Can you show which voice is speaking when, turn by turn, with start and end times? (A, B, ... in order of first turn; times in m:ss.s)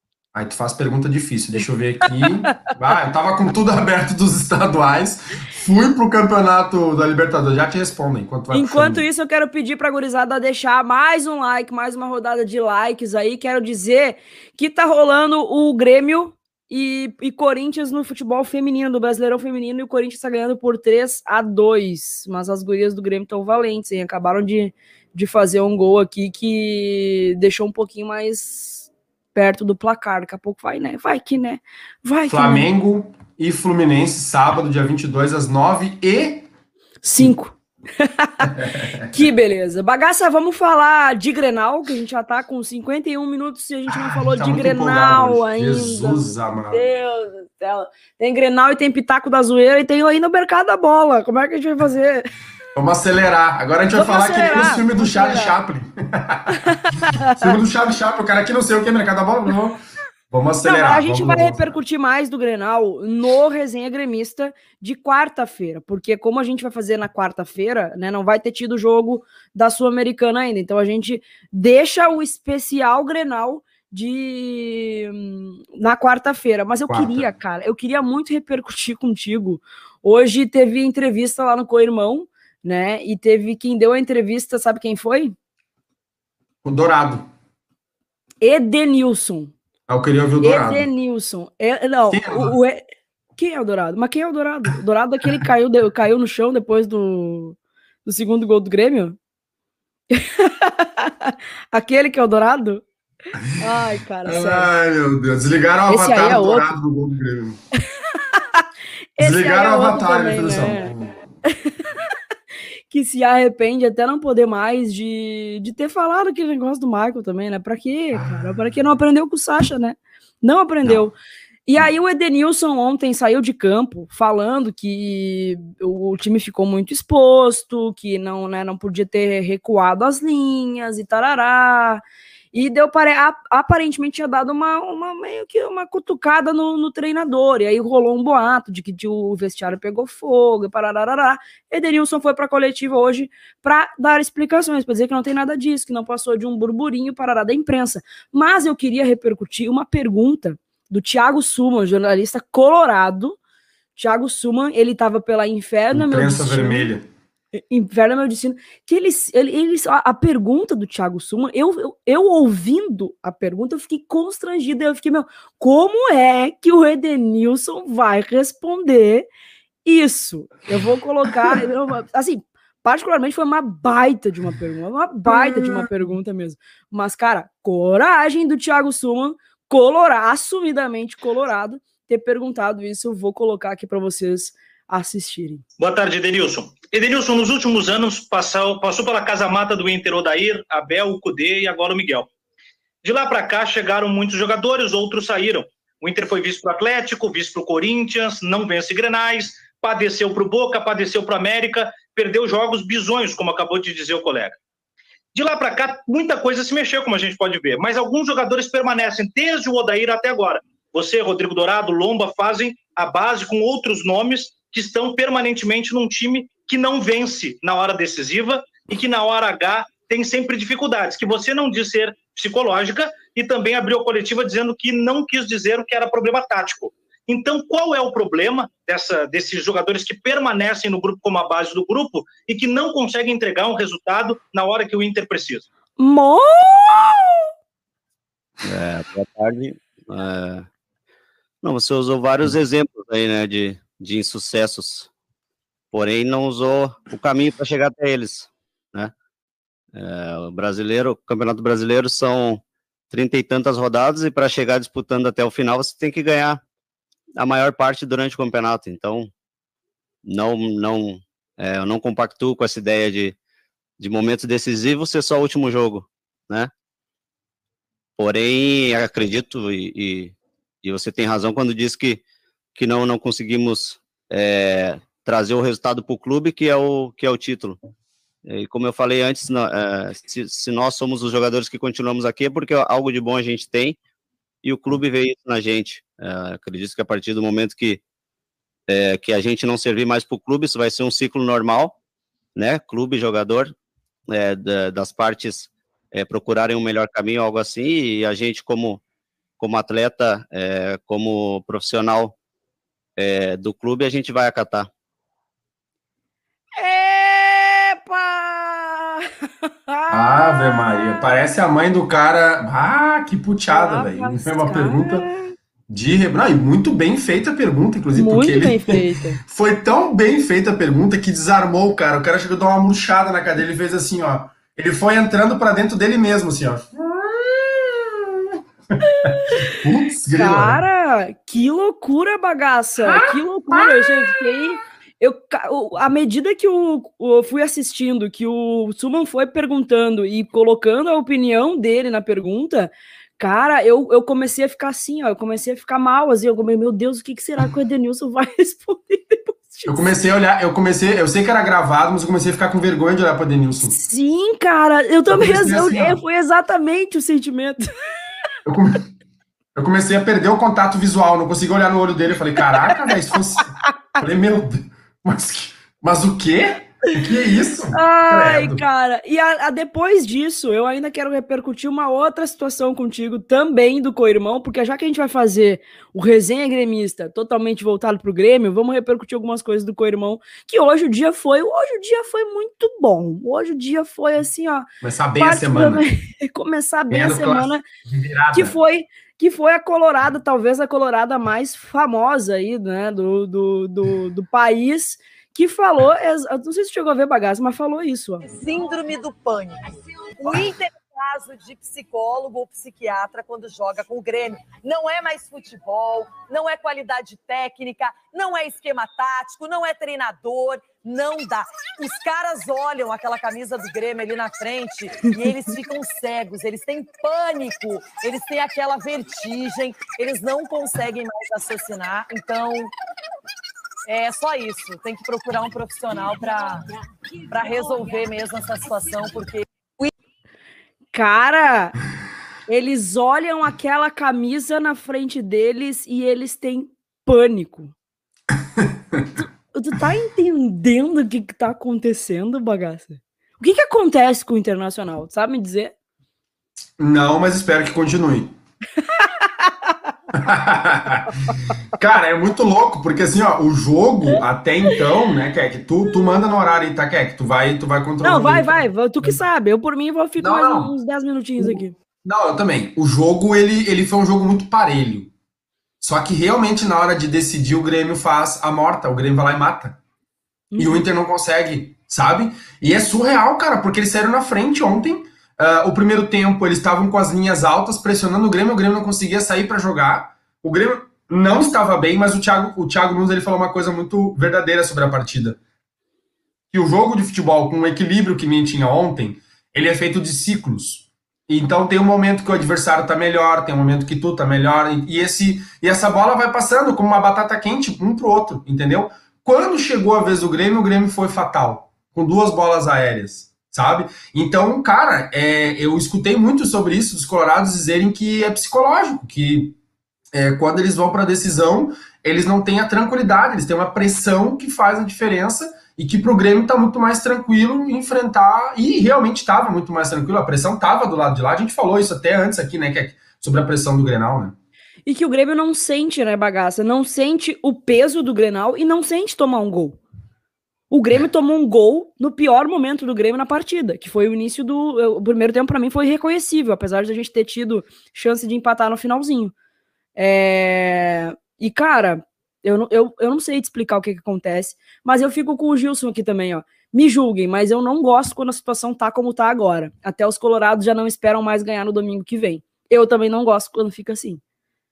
0:00.3-0:09.0 A
0:08.5-0:32.7 B
0:32.3-0:36.5 A
0:37.0-0:38.5 B
0:38.5-0:39.2 A
0:39.1-0:52.3 B
0:43.9-0:46.8 A
0:52.7-0:56.6 A
0:53.9-0:55.6 B
0:56.6-0:57.4 B
0:57.3-1:01.8 A
1:00.6-1:25.3 B
1:16.8-1:17.3 A
1:26.6-1:27.3 A
1:28.4-1:29.5 B
1:29.9-1:30.9 A
1:30.4-1:32.8 B
1:32.1-1:32.6 A
1:33.4-1:39.2 B
1:40.1-1:42.8 B
1:43.6-1:44.7 B
1:44.2-1:47.6 A
1:45.9-1:46.7 B
1:48.2-1:48.6 B
1:49.2-1:50.9 B
1:49.2-1:51.1 A
1:52.9-2:01.1 B
1:58.1-1:58.7 A
2:01.7-2:12.0 B
2:12.5-2:33.4 B
2:34.0-2:36.9 B
2:35.9-2:37.1 A
2:37.7-2:49.3 B
2:49.8-3:05.6 B
2:55.3-2:55.9 A
3:05.8-3:12.3 C
3:13.0-3:24.6 C
3:25.3-3:55.7 C
3:56.0-3:57.4 B
3:58.6-4:00.7 D
4:01.6-4:05.1 D
4:05.9-4:09.1 D
4:09.9-4:16.6 D
4:17.4-4:19.3 D
4:20.2-4:23.4 D
4:24.0-4:26.7 D
4:28.2-4:32.2 D
4:32.8-4:37.8 D
4:38.4-4:44.0 D
4:44.6-4:48.0 D
4:48.9-4:51.9 D
4:52.6-4:53.7 D
4:54.3-4:59.0 D
4:59.6-5:02.3 D
5:03.2-5:04.9 D
5:06.8-5:09.2 B
5:09.9-5:11.3 B
5:10.1-5:15.3 A
5:13.7-5:15.5 B
5:15.9-5:28.6 A
5:18.1-5:19.4 B
5:29.0-5:29.8 B
5:29.2-5:30.8 A
5:30.3-5:50.1 B
5:33.0-5:34.5 A
5:49.8-5:54.0 A
5:53.8-5:57.9 B
5:55.3-5:56.2 A
5:58.6-5:59.1 A
5:59.8-6:08.8 A
6:07.9-6:24.8 B
6:25.0-6:26.0 A
6:25.4-6:27.8 B
6:27.1-6:28.8 A
6:28.5-6:38.4 B
6:38.4-7:02.9 E
7:04.1-7:06.9 E
7:07.5-7:10.1 E
7:11.1-7:12.0 B
7:12.7-7:17.9 B
7:18.8-7:19.3 A
7:19.4-7:25.9 B
7:27.0-7:28.5 A
7:29.0-7:29.9 B
7:30.3-7:31.3 A
7:31.9-7:39.4 A
7:38.2-7:41.9 B
7:40.4-7:40.9 A
7:41.6-7:45.3 A
7:46.0-7:50.0 A
7:50.7-7:51.0 B
7:50.8-8:05.6 A
8:06.7-8:29.8 A
8:30.3-8:44.5 A
8:45.0-8:50.0 B
8:50.9-8:59.5 B
9:00.2-9:14.4 B